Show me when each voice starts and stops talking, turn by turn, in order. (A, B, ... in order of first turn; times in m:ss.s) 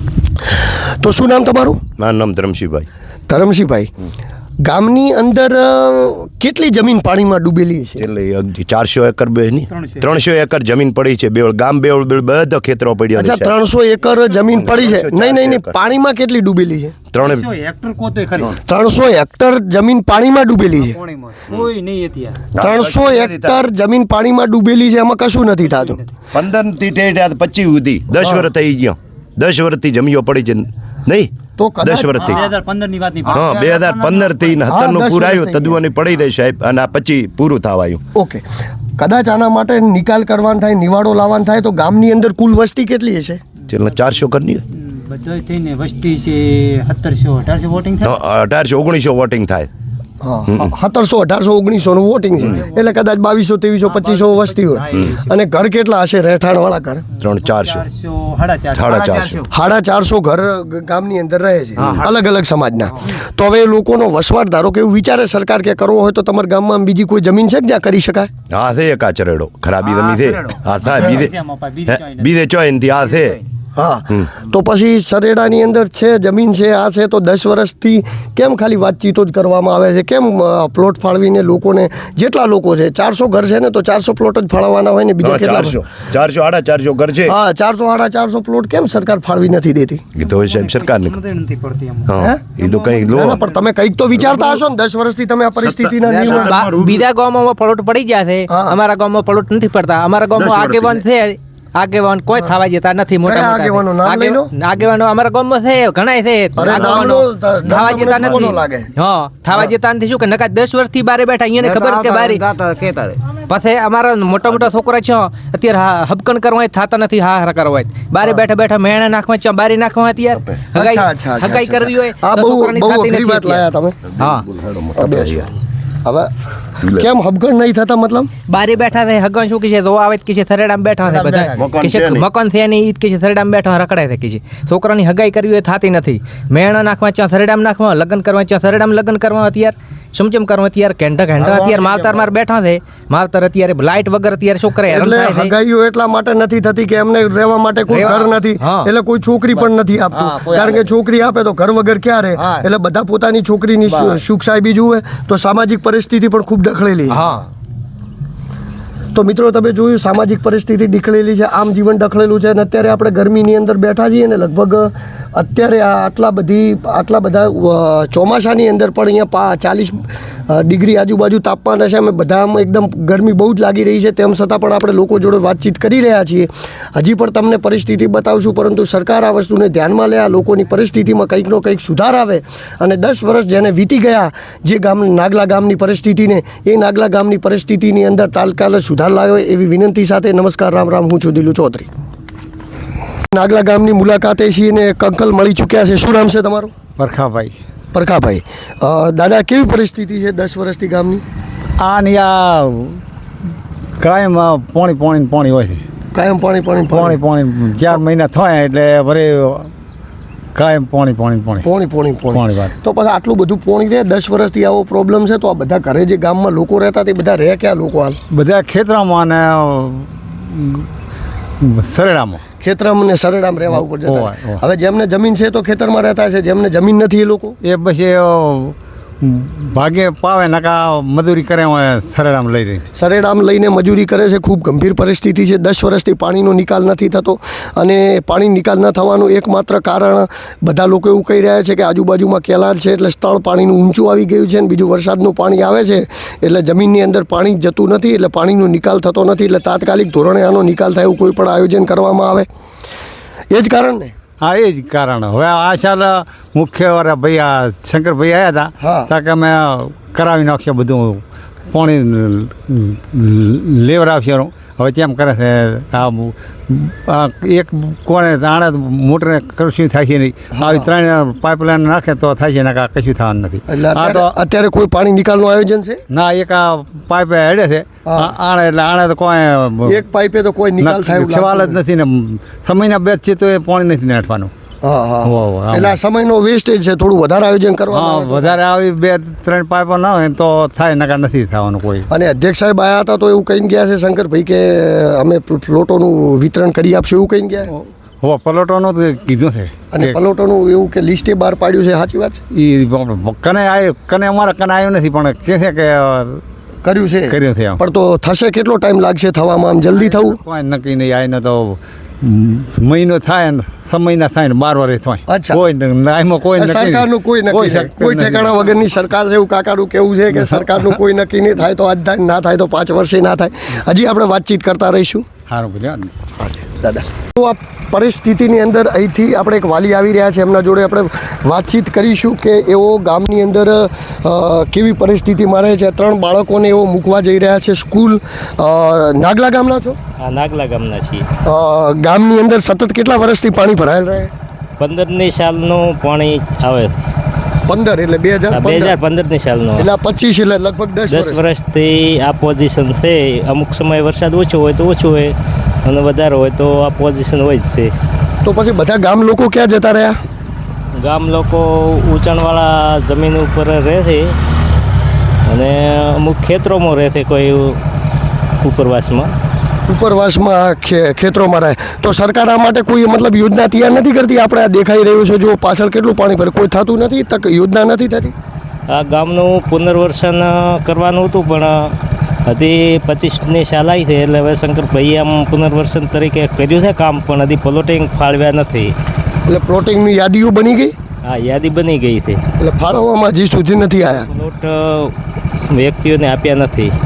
0:00.4-0:01.8 A
0:02.0-0:02.9 B
0:03.3-0:03.9 A
0:04.6-0:08.0 A
0:08.0-0:13.5 B
0:09.8-0:10.1 C
0:13.2-0:17.0 A
0:14.5-0:15.8 B
0:17.1-0:17.5 B
0:17.2-0:18.6 C
0:18.6-0:21.0 A
0:20.8-0:22.4 C
0:21.5-0:21.7 B
0:22.6-0:23.6 B
0:22.6-0:26.0 A
0:25.7-0:26.0 C
0:26.3-0:32.6 B
0:28.2-0:28.5 A
0:31.6-0:32.4 A
0:32.2-0:34.6 C
0:33.2-0:38.0 B
0:34.7-0:35.8 A
0:38.2-0:38.4 A
0:39.0-0:43.4 A
0:43.7-0:44.6 B
0:44.9-0:48.1 C
0:48.0-0:49.7 B
0:50.2-0:57.0 A
0:52.4-0:52.6 B
0:53.9-0:55.3 C
0:57.2-0:57.9 B
0:57.4-0:59.5 C
0:58.7-0:59.4 B
0:59.4-1:08.3 A
1:01.8-1:02.0 B
1:08.5-1:13.4 B
1:09.8-1:12.3 C
1:13.0-1:13.3 C
1:13.8-1:25.8 A
1:25.2-1:27.3 B
1:27.2-1:30.0 A
1:30.2-1:31.2 B
1:30.2-1:33.6 C
1:32.1-1:33.4 B
1:32.2-1:32.5 A
1:33.0-1:36.6 A
1:34.1-1:34.6 B
1:35.6-1:37.1 B
1:36.0-2:03.7 D
1:38.5-1:38.8 A
1:40.3-1:41.1 B
1:43.2-1:44.5 A
1:46.6-1:48.9 A
2:00.8-2:04.0 A
2:04.1-2:05.5 B
2:04.2-2:04.5 D
2:05.0-2:05.5 A
2:06.0-2:06.3 A
2:06.9-2:08.3 A
2:08.5-2:25.5 D
2:11.0-2:12.3 B
2:21.4-2:22.3 B
2:24.9-2:37.2 A
2:27.9-2:28.9 D
2:30.1-2:30.8 D
2:33.9-2:34.2 D
2:37.1-2:37.5 D
2:39.1-3:11.9 A
3:13.3-3:16.7 A
3:17.0-3:17.5 E
3:17.9-3:21.2 A
3:21.8-3:23.0 E
3:24.0-3:25.8 E
3:26.1-3:27.2 A
3:27.0-3:29.7 E
3:30.5-3:31.7 E
3:31.6-3:38.2 A
3:32.3-3:32.7 E
3:38.3-3:40.9 E
3:41.6-3:42.4 E
3:42.6-3:47.6 A
3:43.7-3:44.6 E
3:47.6-3:52.8 E
3:53.0-4:12.5 A
4:13.5-4:14.1 A
4:14.4-4:34.3 E
4:18.8-4:19.1 A
4:30.5-4:30.9 A
4:33.7-4:36.0 A
4:36.1-4:40.0 E
4:38.0-4:38.4 A
4:39.9-4:41.8 A
4:40.8-4:44.5 E
4:44.8-4:48.6 A
4:45.2-4:46.0 E
4:47.9-4:52.1 E
4:52.1-4:57.7 A
4:57.8-5:00.2 E
4:59.9-5:02.4 A
5:02.5-5:06.4 E
5:06.8-5:10.4 A
5:07.3-5:07.8 E
5:10.0-5:18.6 E
5:15.3-5:15.6 A
5:16.5-5:25.2 A
5:20.4-5:20.9 E
5:25.5-5:26.1 E
5:26.4-5:40.0 A
5:40.2-5:41.3 F
5:41.4-5:44.3 A
5:44.8-5:47.0 F
5:47.7-5:49.0 A
5:48.5-5:49.9 F
5:49.8-5:51.4 A
5:51.1-5:55.3 F
5:55.8-5:57.9 F
5:58.4-6:00.2 A
6:01.0-6:04.4 F
6:05.5-6:07.8 F
6:08.6-6:09.3 F
6:09.9-6:18.3 A
6:18.9-6:22.0 F
6:22.5-6:28.9 F
6:29.5-6:30.9 A
6:31.2-6:32.4 F
6:32.6-6:34.3 A
6:34.3-6:36.9 F